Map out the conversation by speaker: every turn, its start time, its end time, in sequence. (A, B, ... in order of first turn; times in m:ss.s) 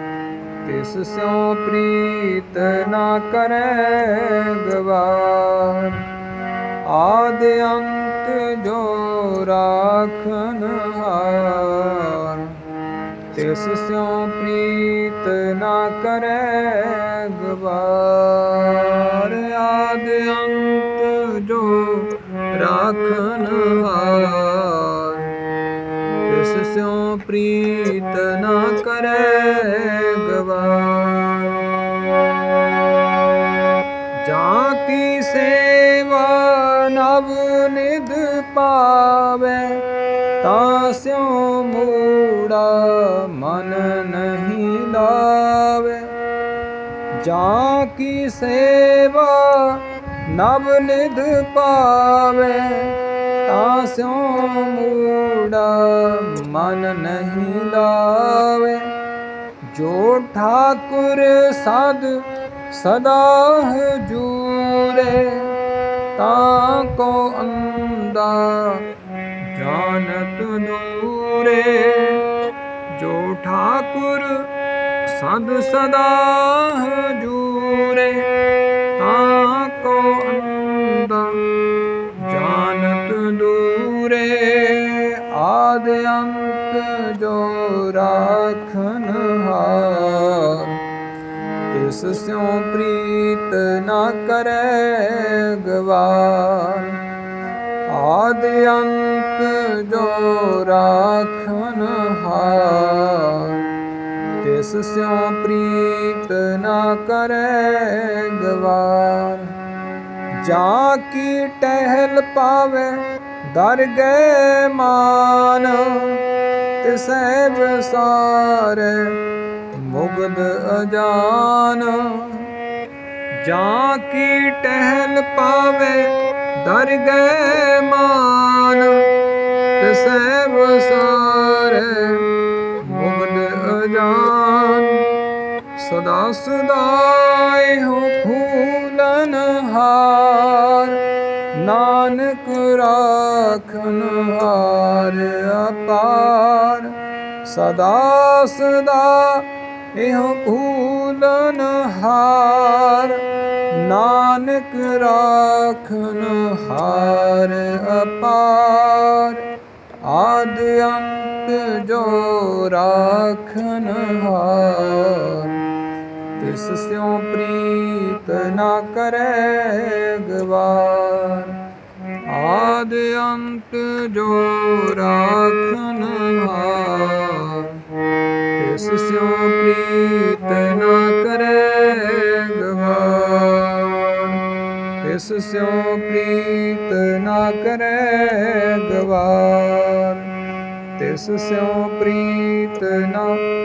0:00.6-0:06.0 A
0:06.9-0:12.6 A
0:13.3-0:25.3 A
0:26.3-0:31.6 A
0:34.2-0:39.8 A
0:40.4-0:46.1 A
0:47.2-0:52.9 A
0:53.4-0:58.9 A
0:59.7-1:05.5 A
1:06.2-1:08.8 A
1:09.5-1:12.2 A
1:12.9-1:14.5 A
1:15.0-1:18.2 A
1:19.0-1:21.4 A
1:22.2-1:30.8 A
1:31.7-1:37.0 A
1:37.9-1:43.6 A
1:44.4-1:49.5 A
1:50.4-1:56.2 A
1:56.8-1:59.1 A
1:59.7-2:02.5 A
2:03.4-2:09.0 A
2:09.8-2:12.2 A
2:12.8-2:15.0 A
2:15.8-2:21.0 A
2:21.5-2:26.9 A
2:27.4-2:39.4 A
2:40.0-2:45.6 A
2:46.4-2:51.6 A
2:52.3-2:57.8 A
2:58.6-3:04.4 A
3:05.0-3:10.3 A
3:11.0-3:13.4 A